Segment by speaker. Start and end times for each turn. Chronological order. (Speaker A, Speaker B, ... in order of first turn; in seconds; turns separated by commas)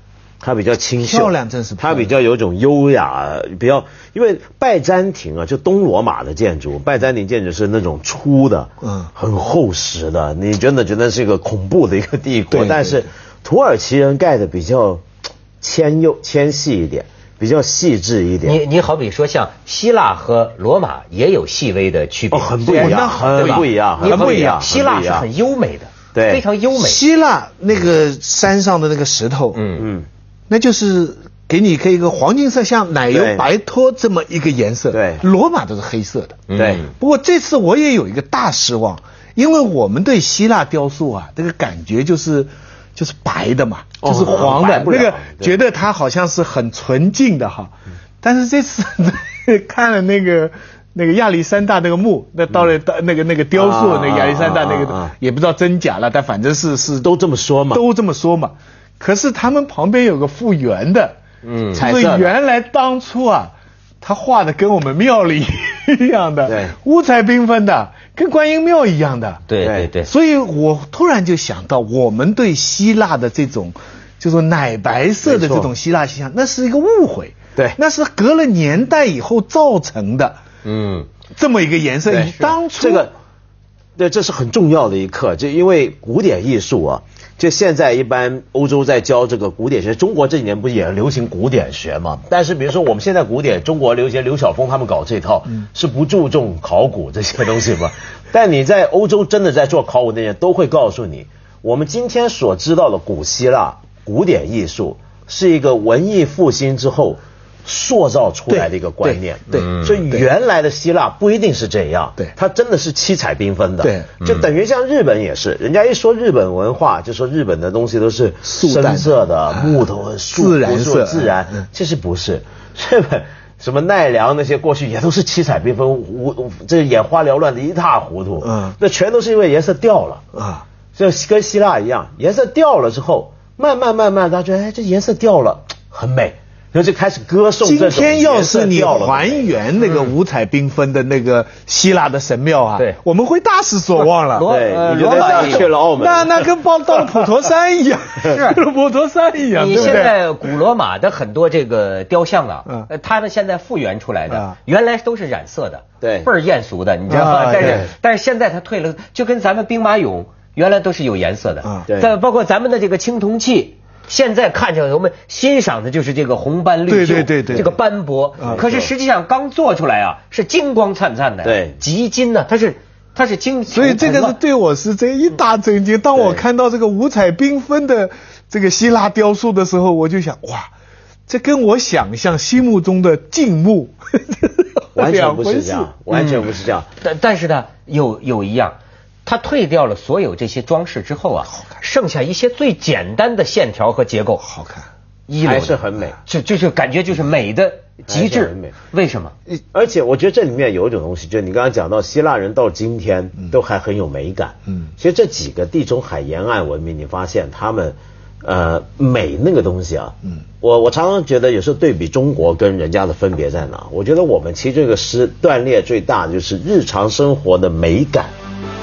Speaker A: 0.4-15.0, Speaker B: 1.0-2.1, Speaker B: 8.8-9.1, Speaker B: 12.5-13.1, Speaker A: 15.6-18.6, Speaker C: 18.4-27.0, Speaker A: 22.3-25.3, Speaker B: 22.7-24.6, Speaker A: 26.1-26.4, Speaker B: 26.7-29.6, Speaker C: 29.6-29.9, Speaker A: 29.8-30.1, Speaker B: 30.5-57.1, Speaker A: 33.1-33.5, Speaker A: 34.9-35.2, Speaker C: 36.5-36.9, Speaker A: 36.6-36.8, Speaker A: 44.0-45.6, Speaker A: 53.5-55.1, Speaker A: 57.0-57.8, Speaker B: 57.7-61.2, Speaker C: 61.4-61.8, Speaker A: 61.8-62.3, Speaker B: 61.8-69.5, Speaker A: 66.5-66.7, Speaker C: 69.5-70.1, Speaker A: 69.6-69.9, Speaker B: 70.0-80.4, Speaker A: 75.2-75.7, Speaker C: 80.7-81.1, Speaker B: 81.3-83.1, Speaker A: 82.1-83.1, Speaker A: 84.0-130.2, Speaker B: 108.5-110.3, Speaker C: 109.6-109.9, Speaker B: 113.8-114.1, Speaker B: 118.5-119.8, Speaker B: 120.3-121.7, Speaker B: 128.4-128.8, Speaker B: 130.3-130.7, Speaker A: 131.0-139.6, Speaker B: 137.6-144.5, Speaker C: 144.3-145.7, Speaker A: 144.5-146.5, Speaker B: 145.1-150.2, Speaker C: 148.2-148.6, Speaker C: 149.5-174.4, Speaker B: 154.3-154.6, Speaker A: 156.0-156.3, Speaker B: 157.1-157.9, Speaker A: 157.6-157.9, Speaker A: 161.9-162.1, Speaker B: 166.9-167.7, Speaker B: 168.4-168.6, Speaker A: 168.4-168.9, Speaker A: 171.4-171.8, Speaker B: 173.7-180.7, Speaker A: 176.2-176.4, Speaker B: 181.3-185.9, Speaker A: 184.9-186.9, Speaker C: 186.1-194.4, Speaker B: 194.4-194.9, Speaker C: 195.3-199.3, Speaker A: 195.4-196.2, Speaker A: 198.1-198.7, Speaker A: 199.7-218.3